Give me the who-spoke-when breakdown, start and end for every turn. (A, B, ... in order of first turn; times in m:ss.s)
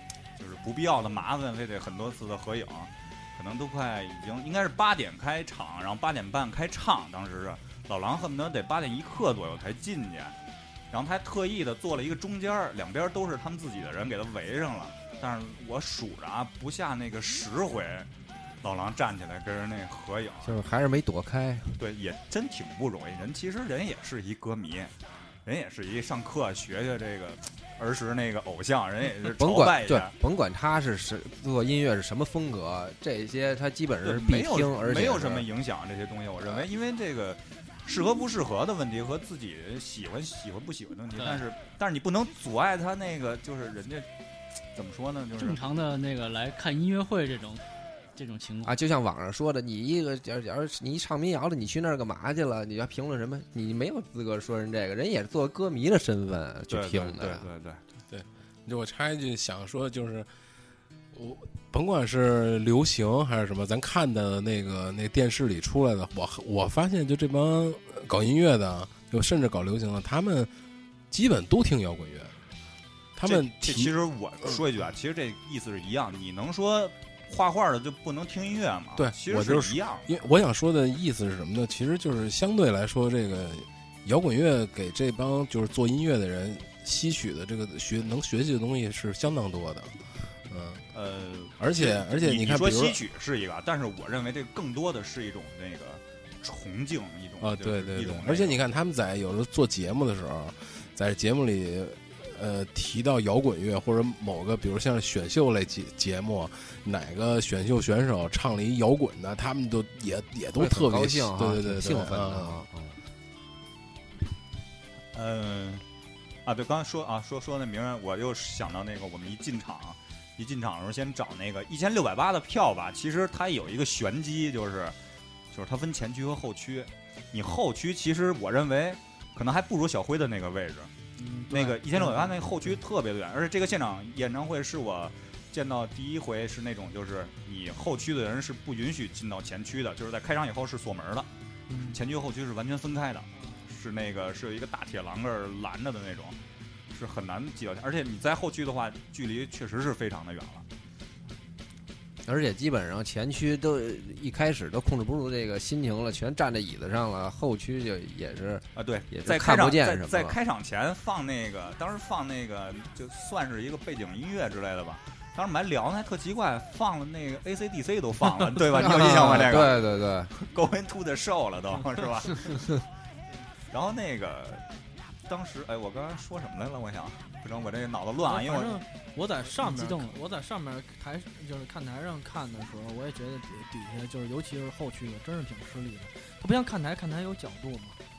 0:00.4-0:10.4 A
0:10.9-0:18.1 A
0:18.6-0:20.6 A
0:20.4-0:21.8 B
0:21.8-0:24.9 A
0:25.4-0:30.1 A
0:29.3-0:35.5 B
0:34.0-0:44.1 A
0:41.2-0:41.4 C
0:44.7-0:45.6 A
0:45.4-0:47.6 C
0:48.2-0:48.7 C
0:48.6-0:57.5 B
0:56.7-0:57.8 A
0:58.1-1:00.3 D
1:01.1-1:10.5 D
1:11.1-1:12.4 D
1:13.2-1:13.9 D
1:13.2-1:20.2 A
1:19.0-1:30.8 D
1:30.9-1:38.6 A
1:31.6-1:33.0 D
1:37.4-1:52.6 D
1:50.6-1:53.0 B
1:55.1-1:55.8 A
1:56.4-2:05.0 A
2:05.5-2:10.9 A
2:11.2-2:12.4 E
2:11.5-2:21.3 A
2:21.7-2:22.0 E
2:21.9-2:26.4 A
2:26.9-2:30.7 A
2:32.2-2:40.4 B
2:38.8-2:52.6 A
2:48.7-2:50.3 B
2:53.7-2:54.7 A
2:55.2-2:58.8 A
2:58.2-3:08.0 E
2:59.6-3:00.1 C